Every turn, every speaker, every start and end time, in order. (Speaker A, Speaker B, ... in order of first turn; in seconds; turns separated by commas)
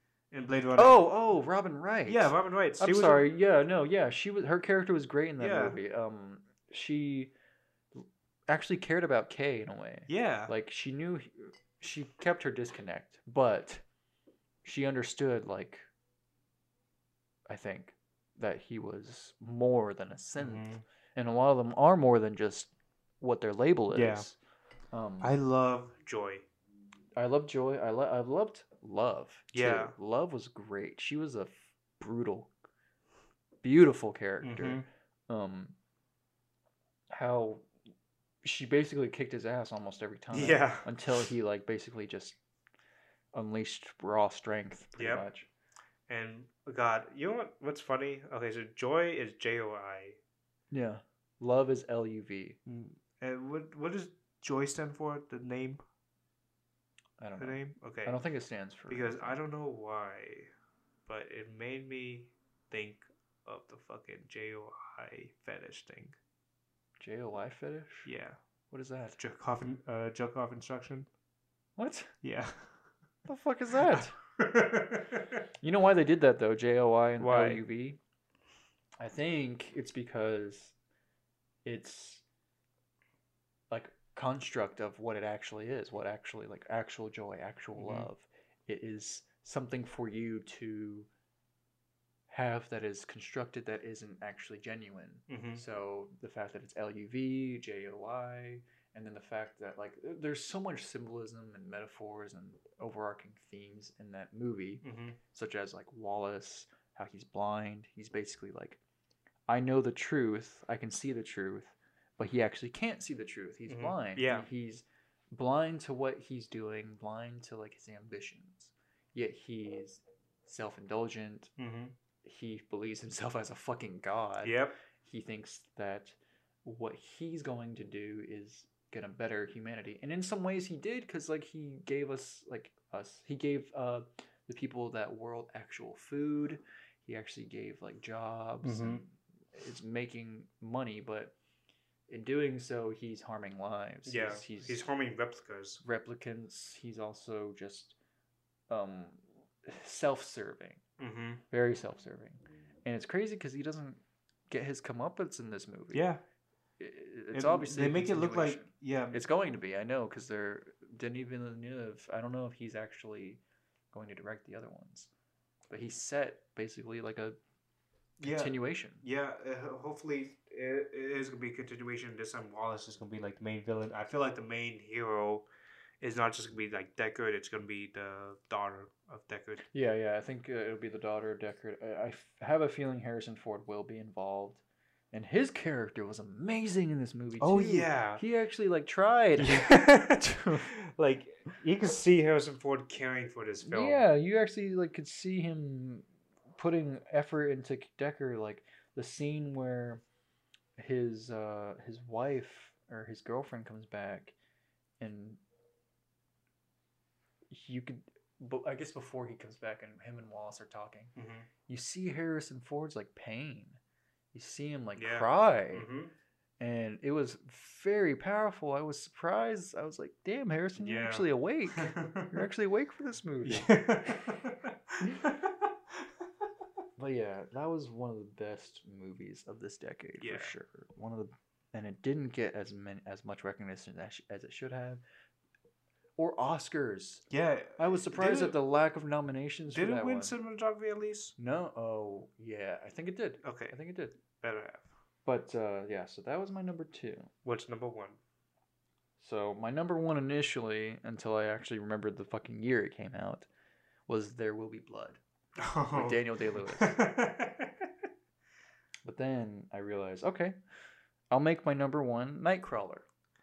Speaker A: 0.3-1.0, Speaker B: 0.8-7.3, Speaker A: 2.1-3.2, Speaker A: 5.4-5.8, Speaker B: 7.9-13.8, Speaker A: 10.1-10.5, Speaker B: 14.6-15.9, Speaker B: 17.5-24.4, Speaker A: 20.4-20.8, Speaker A: 23.9-24.3, Speaker B: 24.9-25.3, Speaker A: 25.2-26.4, Speaker B: 27.1-32.5, Speaker A: 29.5-29.9, Speaker B: 33.6-35.8, Speaker A: 34.4-34.9, Speaker B: 37.1-37.7, Speaker B: 38.4-42.4, Speaker A: 40.3-41.2, Speaker B: 43.3-45.5, Speaker A: 45.0-45.2, Speaker A: 46.1-50.2, Speaker B: 50.7-52.6, Speaker A: 52.6-55.8, Speaker B: 57.2-59.3, Speaker A: 57.4-58.2, Speaker A: 58.9-60.5, Speaker A: 61.1-66.2, Speaker B: 67.0-68.1, Speaker A: 68.0-68.4, Speaker B: 68.7-69.2, Speaker A: 69.2-71.1, Speaker B: 71.8-72.1, Speaker A: 72.2-72.7, Speaker B: 73.2-74.2, Speaker A: 73.9-75.3, Speaker B: 75.6-78.0, Speaker A: 77.2-77.6, Speaker B: 79.0-80.7, Speaker B: 81.6-82.2, Speaker B: 83.7-91.1, Speaker A: 87.7-88.1, Speaker B: 92.3-108.8, Speaker A: 95.3-95.6, Speaker A: 104.8-105.2, Speaker B: 109.5-121.5, Speaker A: 113.7-114.5, Speaker A: 121.6-121.9, Speaker B: 122.2-141.3, Speaker A: 124.4-124.8, Speaker A: 138.6-139.0, Speaker B: 142.1-144.8, Speaker A: 144.1-145.8, Speaker B: 145.8-147.9, Speaker B: 148.7-150.8, Speaker A: 151.0-151.4, Speaker B: 151.5-156.1, Speaker A: 155.9-156.2, Speaker B: 156.8-163.4, Speaker A: 157.3-159.2, Speaker B: 163.9-165.1, Speaker B: 165.7-167.4, Speaker A: 168.2-175.5, Speaker B: 168.2-169.0, Speaker A: 176.0-179.6, Speaker B: 179.7-190.7, Speaker A: 187.4-188.2, Speaker A: 189.4-194.0, Speaker B: 193.6-200.0, Speaker B: 200.8-204.3, Speaker B: 205.0-205.4, Speaker B: 207.5-211.1, Speaker A: 211.2-211.5, Speaker B: 211.7-213.8, Speaker B: 214.3-215.9, Speaker A: 215.0-216.1, Speaker B: 216.6-224.4, Speaker A: 220.8-221.2, Speaker A: 221.8-222.3, Speaker A: 223.4-226.1, Speaker B: 227.0-235.0, Speaker A: 230.2-230.5, Speaker B: 236.2-237.2, Speaker A: 237.3-238.6, Speaker B: 237.8-240.3, Speaker A: 239.7-241.3, Speaker B: 241.4-244.2, Speaker A: 243.4-243.7, Speaker A: 244.4-244.9, Speaker B: 245.2-247.3, Speaker A: 247.4-248.2, Speaker B: 249.2-253.5, Speaker B: 254.1-255.2, Speaker A: 255.6-257.9, Speaker B: 255.9-257.0, Speaker B: 259.0-260.5, Speaker B: 261.3-263.1